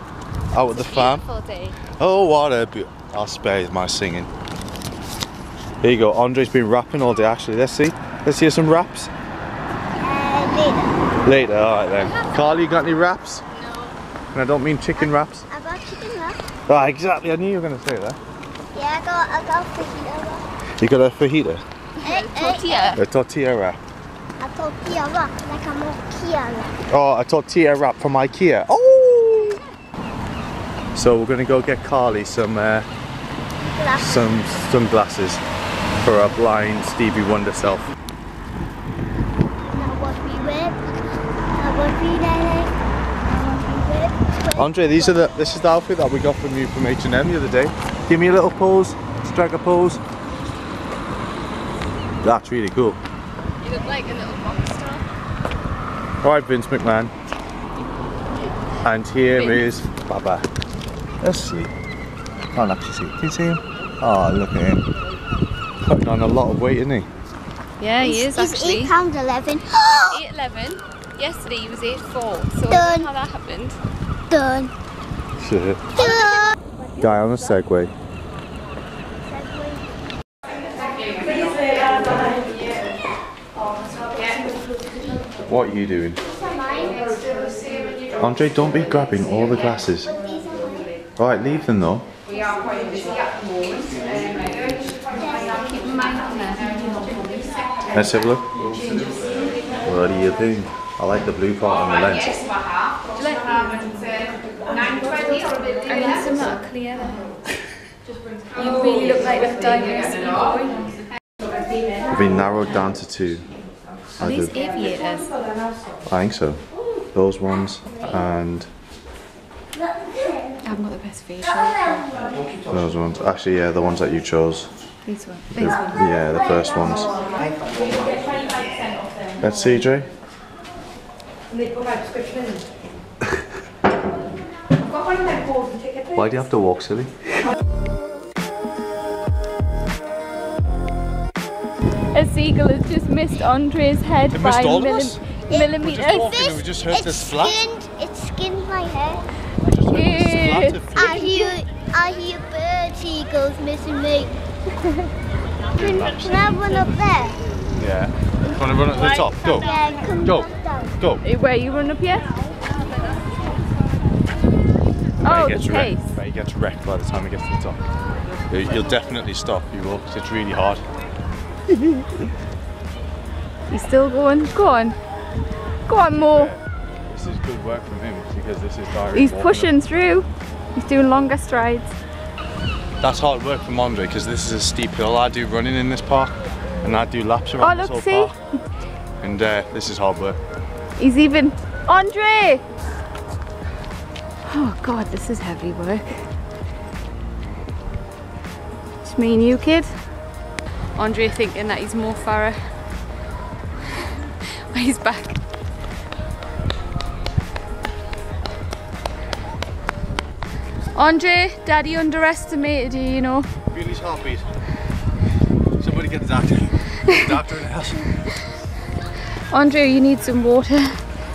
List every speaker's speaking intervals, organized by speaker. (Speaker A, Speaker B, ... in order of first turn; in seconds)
Speaker A: 0.5-1.2, 1.9-4.3, 5.8-9.1, 11.2-13.4, 14.3-15.5, 16.7-18.2, 20.8-21.6, 22.9-23.8, 26.9-29.6, 30.9-32.9, 34.0-35.4, 36.0-37.9, 44.5-50.0, 52.2-53.0, 56.2-57.1, 58.8-60.5, 61.2-61.7, 62.5-64.8, 65.8-67.1, 75.4-75.9, 77.0-77.9, 85.5-86.2, 88.2-90.1, 91.2-92.1, 97.9-98.5, 99.8-102.5, 112.1-113.5, 114.2-114.7, 116.1-118.7, 122.7-124.7, 125.5-127.2, 129.4-130.1, 136.1-137.3, 144.3-145.2, 145.8-147.6, 149.6-151.3, 155.8-156.6, 157.8-159.7, 160.2-160.5, 165.2-167.8, 168.5-170.8, 176.1-179.7, 183.0-188.3, 189.2-190.4, 213.7-214.5, 215.8-218.3
Speaker B: 0.7-1.8, 12.0-12.5, 13.5-13.9, 22.0-23.0, 53.6-55.1, 59.3-59.7, 67.8-68.9, 69.9-73.8, 76.0-76.4, 92.8-93.1, 95.4-97.4, 103.2-104.3, 104.8-107.3, 108.5-111.0, 114.2-115.3, 120.6-122.2, 125.0-126.0, 142.1-146.3, 149.9-151.6, 158.9-159.8, 161.2-162.3, 165.2-166.1, 173.7-175.0, 175.9-176.6, 179.1-181.9, 187.6-188.4, 191.0-192.6, 194.5-196.3, 199.0-200.0, 201.0-202.8, 204.0-205.4, 210.9-213.5, 219.5-221.0
Speaker C: 10.0-11.0, 15.0-16.4, 18.7-20.4, 22.0-23.0, 24.4-26.8, 33.6-34.4, 39.7-40.8, 41.6-42.7, 43.3-45.5, 68.0-70.2, 72.7-73.1, 74.3-74.7, 76.0-77.4, 79.2-80.0, 84.9-85.2, 86.3-87.1, 90.0-90.9, 95.1-96.1, 119.7-120.6, 126.0-127.3, 145.5-149.3, 150.9-154.4, 155.8-157.4, 159.5-161.0